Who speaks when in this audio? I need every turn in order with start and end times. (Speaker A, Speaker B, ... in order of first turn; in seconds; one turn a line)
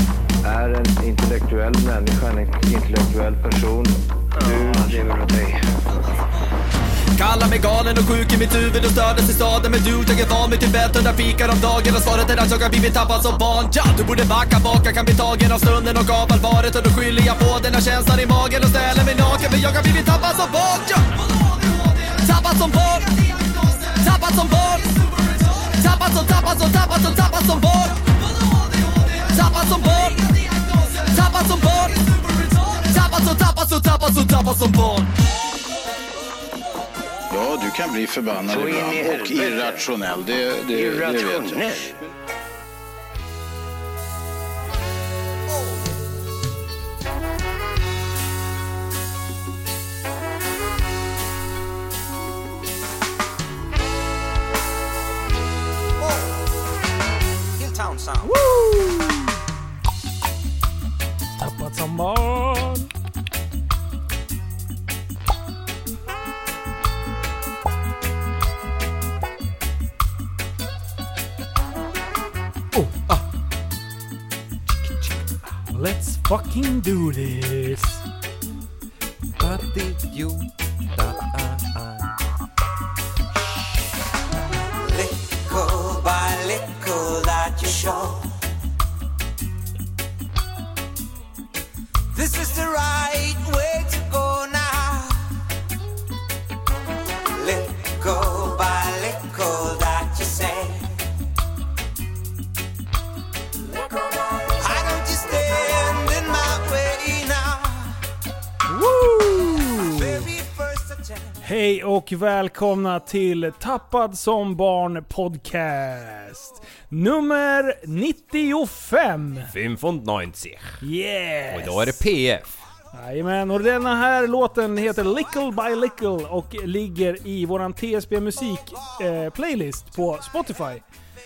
Speaker A: 0.4-5.6
Speaker B: 4.5-4.8
Speaker C: 7.2-35.1
Speaker D: 37.3-41.8
Speaker B: 38.5-39.9
Speaker B: 40.7-42.0
Speaker B: 57.6-58.3
Speaker E: 58.2-59.3
Speaker E: 61.4-62.9
Speaker E: 72.7-73.0
Speaker E: 75.7-78.0
Speaker F: 79.4-82.1
Speaker B: 84.8-88.4
Speaker B: 92.1-95.4
Speaker B: 97.3-101.0
Speaker B: 104.4-108.0
Speaker E: 108.7-110.0
Speaker B: 109.8-111.3
Speaker E: 111.4-119.5
Speaker F: 119.5-120.8
Speaker E: 120.8-122.0
Speaker F: 121.5-122.6
Speaker E: 122.9-130.8